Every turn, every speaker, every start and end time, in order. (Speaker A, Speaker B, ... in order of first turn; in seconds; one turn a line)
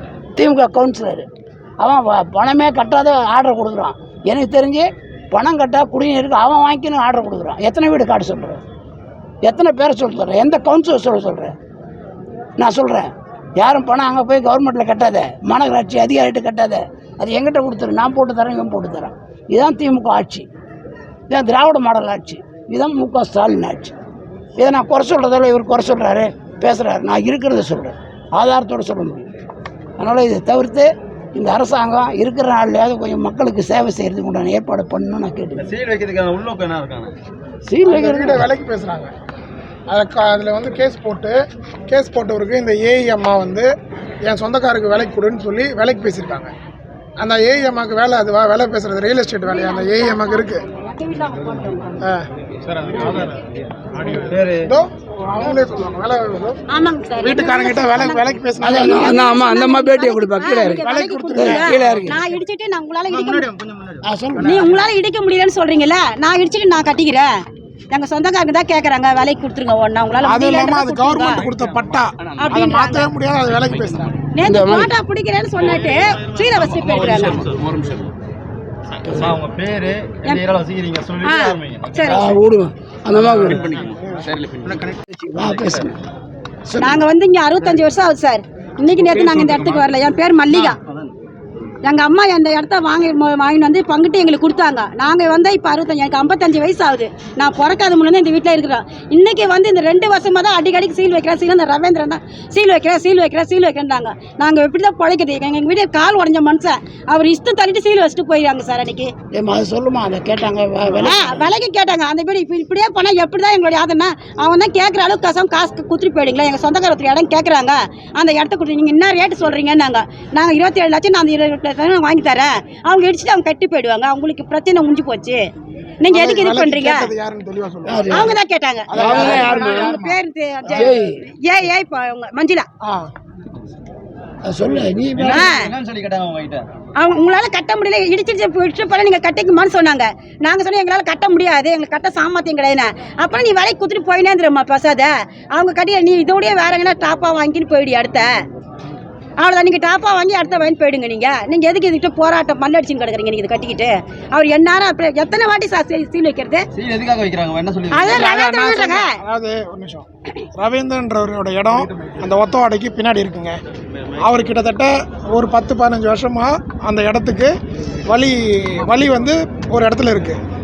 Speaker A: 0.4-1.3
Speaker A: 1.8-8.6
Speaker A: 9.4-11.6
Speaker A: 12.6-20.5
Speaker A: 21.3-23.9
Speaker A: 24.6-29.3
Speaker A: 30.0-35.6
Speaker B: 35.6-37.2
Speaker A: 37.7-38.5
Speaker C: 37.9-39.1
Speaker C: 39.9-41.4
Speaker C: 41.9-43.7
Speaker C: 44.3-46.5
Speaker C: 47.2-50.6
Speaker D: 49.5-52.0
Speaker D: 53.0-53.4
Speaker B: 54.2-54.7
Speaker C: 54.6-56.6
Speaker D: 56.7-63.5
Speaker C: 57.2-59.2
Speaker A: 58.6-62.2
Speaker C: 60.8-62.0
Speaker B: 63.2-64.0
Speaker A: 64.0-64.8
Speaker D: 64.4-67.3
Speaker D: 67.9-71.4
Speaker C: 70.2-74.2
Speaker D: 72.4-73.1
Speaker D: 74.3-77.5
Speaker A: 74.4-74.9
Speaker B: 76.9-78.0
Speaker B: 79.1-82.2
Speaker D: 81.2-82.3
Speaker A: 82.1-83.7
Speaker B: 83.3-85.0
Speaker A: 85.1-86.0
Speaker A: 86.7-87.0
Speaker D: 86.8-90.8
Speaker B: 89.2-89.8
Speaker B: 90.5-91.1
Speaker D: 91.8-109.1
Speaker A: 109.3-111.5
Speaker D: 111.0-125.5
Speaker D: 126.0-127.1
Speaker C: 126.1-130.2
Speaker A: 127.9-128.4
Speaker D: 128.1-132.7
Speaker A: 128.9-130.0
Speaker A: 130.7-131.2
Speaker C: 132.8-133.1
Speaker A: 134.4-135.5
Speaker B: 135.2-136.7
Speaker D: 135.2-135.7
Speaker D: 137.0-148.4
Speaker D: 149.4-156.7
Speaker B: 156.7-158.3
Speaker D: 157.9-159.1
Speaker C: 158.2-163.6
Speaker C: 164.2-167.5
Speaker C: 168.1-170.4